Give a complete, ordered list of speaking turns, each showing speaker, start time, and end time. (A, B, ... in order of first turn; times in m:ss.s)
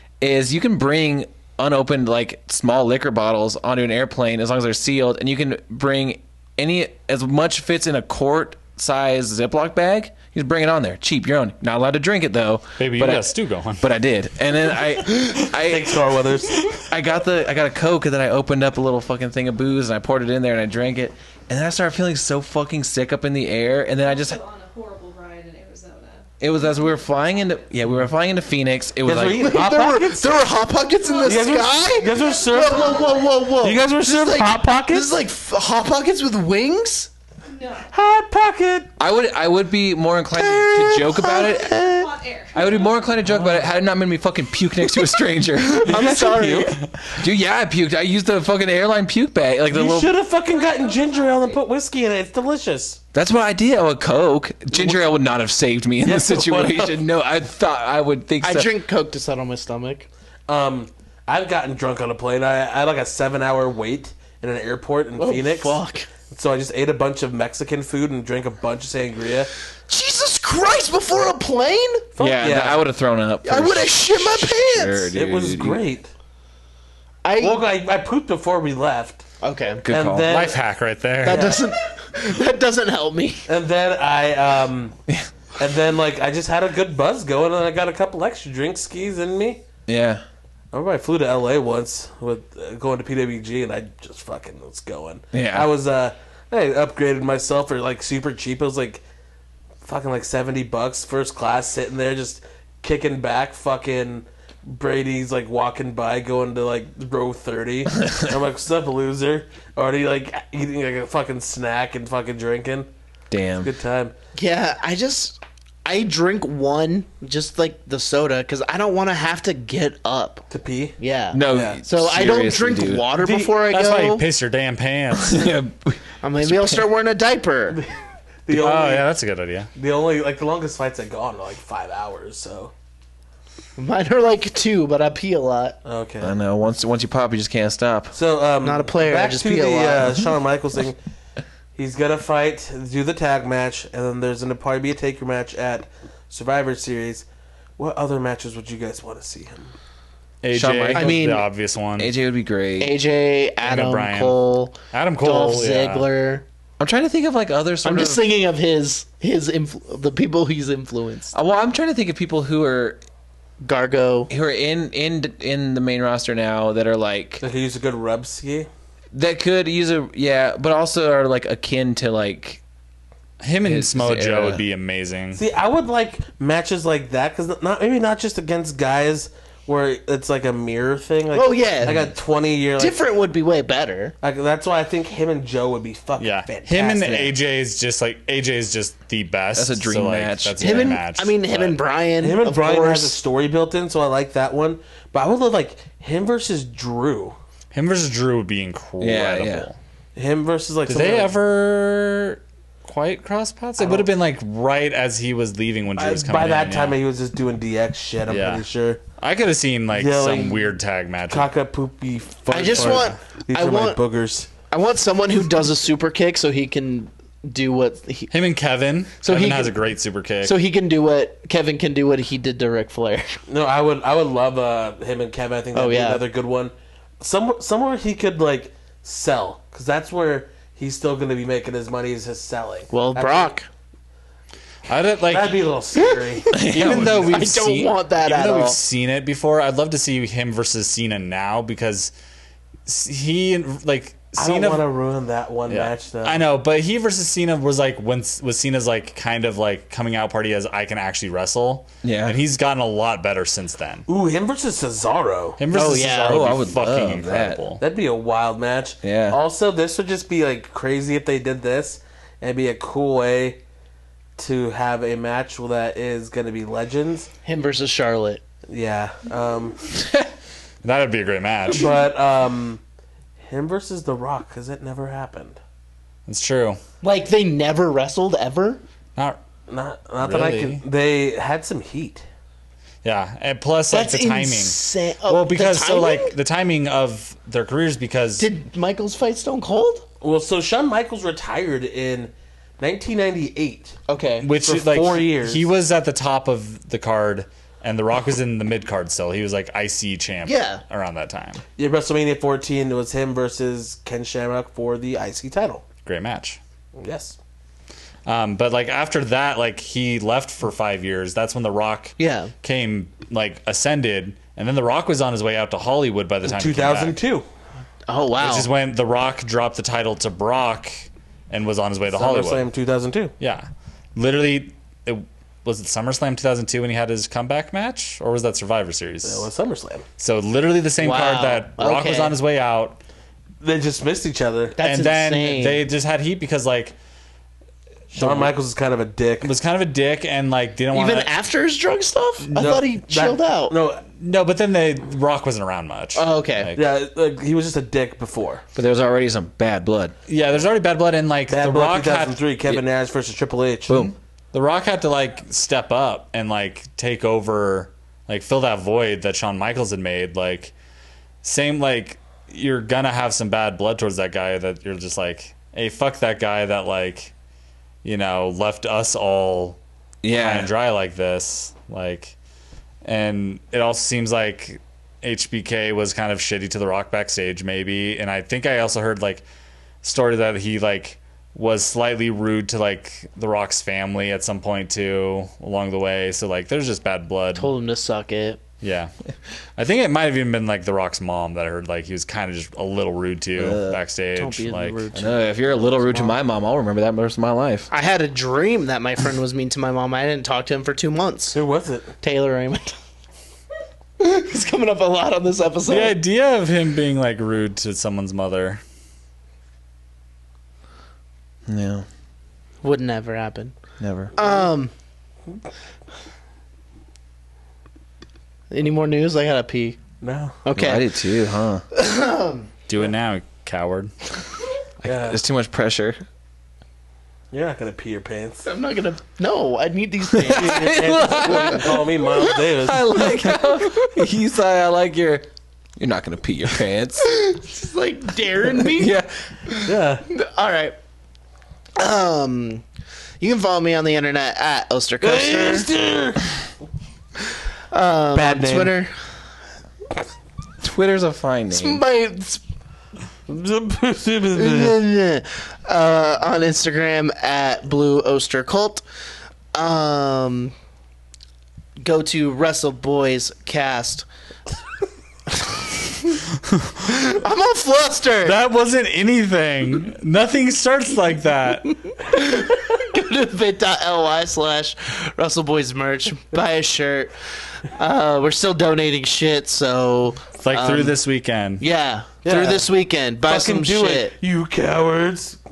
0:00.2-0:16.0 A
0:12.8-0:13.8 B
0:15.6-0:16.8 C
0:16.8-0:24.4 A
0:23.9-0:27.1 D
0:26.4-0:29.5 A
0:29.1-0:30.4 C
0:29.4-0:37.1 E
0:31.0-0:33.5 D
0:31.2-0:35.2 C
0:37.5-0:37.9 D
0:37.9-0:38.9 C
0:39.0-0:41.8 A
0:40.3-0:42.1 E
0:41.3-0:43.2 D
0:42.5-0:50.1 A
0:45.7-0:46.8 E
0:45.9-0:46.7 C
0:49.7-0:53.0 C
0:50.3-0:51.6 D
0:53.1-0:58.7 A
0:54.7-0:55.0 C
0:56.0-0:57.0 C
0:58.4-1:00.1 E
1:00.5-1:09.5 C
1:05.2-1:06.1 E
1:09.9-1:12.1 E
1:12.2-1:12.8 C
1:12.2-1:15.8 A
1:13.4-1:15.1 E
1:15.2-1:16.1 C
1:17.2-1:17.6 E
1:17.4-1:19.2 C
1:19.4-1:19.8 E
1:19.8-1:20.4 A
1:19.9-1:20.6 C
1:20.3-1:21.6 B
1:21.2-1:23.5 E
1:21.3-1:21.6 C
1:23.5-1:25.0 C
1:25.6-1:29.6 C
1:29.9-1:30.2 A
1:30.7-1:39.0 C
1:35.3-1:35.7 A
1:39.8-1:52.9 C
1:53.3-1:53.7 A
1:53.6-1:54.1 C
1:54.4-2:00.5 E
2:00.5-2:01.0 C
2:01.0-2:04.2 E
2:01.3-2:03.1 A
2:01.5-2:01.8 C
2:03.2-2:03.6 C
2:03.7-2:05.5 B
2:05.2-2:06.8 A
2:06.2-2:07.8 E
2:08.5-2:09.0 C
2:08.5-2:09.7 B
2:09.8-2:12.7 C
2:13.8-2:15.8 E
2:15.8-2:16.4 C
2:16.2-2:18.2 A
2:18.1-2:21.0 C
2:18.6-2:20.3 E
2:21.8-2:27.3 C
2:27.8-2:29.7 C
2:30.4-2:32.1 B
2:30.5-2:31.2 A
2:30.9-2:31.4 E
2:32.0-2:33.0 A
2:32.8-2:36.4 E
2:33.6-2:34.4 B
2:34.9-2:36.1 B
2:36.8-2:38.2 A
2:37.8-2:41.3 E
2:41.3-2:43.0 A
2:43.6-2:44.3 E
2:44.3-2:47.4 A
2:47.4-2:48.7 C
2:49.1-2:52.6 A
2:53.4-2:55.4 B
2:53.6-2:54.6 A
2:55.4-3:03.0 C
3:01.3-3:02.1 E
3:02.8-3:04.2 E
3:04.2-3:07.3 C
3:06.2-3:11.8 B
3:09.6-3:11.0 A
3:10.6-3:13.2 E
3:12.2-3:17.4 C
3:17.7-3:19.8 B
3:19.0-3:19.7 A
3:20.2-3:21.4 C
3:20.9-3:27.0 B
3:23.8-3:24.1 C
3:26.0-3:29.0 C
3:28.3-3:28.6 B
3:29.2-3:31.5 B
3:29.9-3:30.7 C
3:31.3-3:34.5 C
3:32.5-3:34.0 E
3:32.7-3:33.2 B
3:34.7-3:38.3 E
3:38.3-3:40.6 B
3:39.2-3:39.8 E
3:40.4-3:43.4 E
3:43.5-3:53.5 C
3:45.7-3:46.2 E
3:52.9-3:53.7 E
3:54.9-3:55.7 B
3:55.3-3:56.5 C
3:55.9-3:58.8 E
3:56.5-4:02.1 B
3:56.5-3:57.4 A
4:02.9-4:04.8 B
4:04.4-4:06.4 C
4:05.7-4:14.1 B
4:12.0-4:12.4 A
4:14.1-4:15.6 C
4:15.6-4:17.8 B
4:15.7-4:16.6 E
4:16.3-4:17.6 A
4:17.8-4:23.6 C
4:19.0-4:19.4 A
4:24.4-4:27.3 C
4:27.4-4:28.4 E
4:28.7-4:29.8 C
4:30.8-4:31.9 B
4:31.7-4:32.8 C
4:33.4-4:35.6 C
4:36.3-4:36.8 B
4:37.0-4:38.8 E
4:39.7-4:42.2 C
4:40.2-4:40.8 B
4:43.0-4:48.5 B
4:43.9-4:46.4 E
4:48.4-4:50.1 E
4:50.2-4:54.0 C
4:54.1-4:54.5 E
4:54.4-5:01.6 B
4:54.6-4:55.7 C
5:00.4-5:00.8 E
5:01.8-5:05.8 C
5:06.0-5:06.6 B
5:07.0-5:07.4 C
5:08.3-5:17.2 B
5:12.2-5:12.5 E
5:16.4-5:17.4 C
5:18.1-5:18.7 E
5:18.4-5:22.7 B
5:22.1-5:23.3 C
5:23.4-5:29.5 B
5:29.2-5:30.0 C
5:30.2-5:33.0 B
5:31.0-5:32.4 E
5:33.6-5:34.8 C
5:34.8-5:35.9 E
5:34.8-5:37.0 B
5:38.1-5:38.5 B
5:38.1-5:39.5 C
5:39.4-5:41.3 B
5:40.9-5:43.8 E
5:42.6-5:44.0 C
5:44.2-5:46.8 B
5:46.2-5:46.7 E
5:46.8-5:48.6 C
5:48.8-5:50.1 A
5:50.3-5:52.4 B
5:51.5-5:54.1 C
5:54.5-6:00.7 B
6:01.4-6:07.3 B
6:08.0-6:12.4 B
6:10.2-6:10.7 A
6:13.0-6:19.4 B
6:20.0-6:27.7 B
6:27.6-6:28.6 E
6:28.8-6:29.1 B
6:29.8-6:35.1 B
6:33.6-6:34.0 A
6:34.4-6:36.4 E
6:35.1-6:37.9 A
6:37.9-6:41.6 E
6:41.5-6:42.1 C
6:42.2-6:43.0 E
6:44.2-6:46.2 E
6:45.9-6:48.8 B
6:51.7-6:52.0 A
6:52.8-6:53.7 E
6:54.0-6:54.3 A
6:54.4-6:54.9 E
6:58.7-7:00.0 E
7:00.2-7:00.6 C
7:00.6-7:01.2 E
7:00.8-7:01.8 A
7:01.9-7:02.7 E
7:02.9-7:04.1 B
7:05.0-7:05.4 C
7:05.1-7:06.2 A
7:07.5-7:08.7 C
7:08.7-7:12.0 E
7:10.3-7:15.5 A
7:10.5-7:13.1 C
7:16.0-7:17.4 A
7:17.2-7:21.0 E
7:18.8-7:19.3 A
7:19.9-7:20.2 C
7:22.0-7:22.8 E
7:23.4-7:25.9 E
7:25.2-7:26.4 C
7:27.9-7:29.1 E
7:28.3-7:28.9 C
7:30.8-7:32.0 A
7:31.7-7:32.6 E
7:33.5-7:35.0 C
7:34.6-7:39.0 E
7:39.7-7:40.7 E
7:42.0-7:44.3 E
7:45.5-7:46.4 E
7:47.1-7:48.6 E
7:48.4-7:52.0 B
7:52.0-7:57.3 E
7:57.9-8:01.2 E
8:00.6-8:01.8 B
8:01.8-8:04.3 E
8:02.4-8:02.9 C
8:03.5-8:05.6 C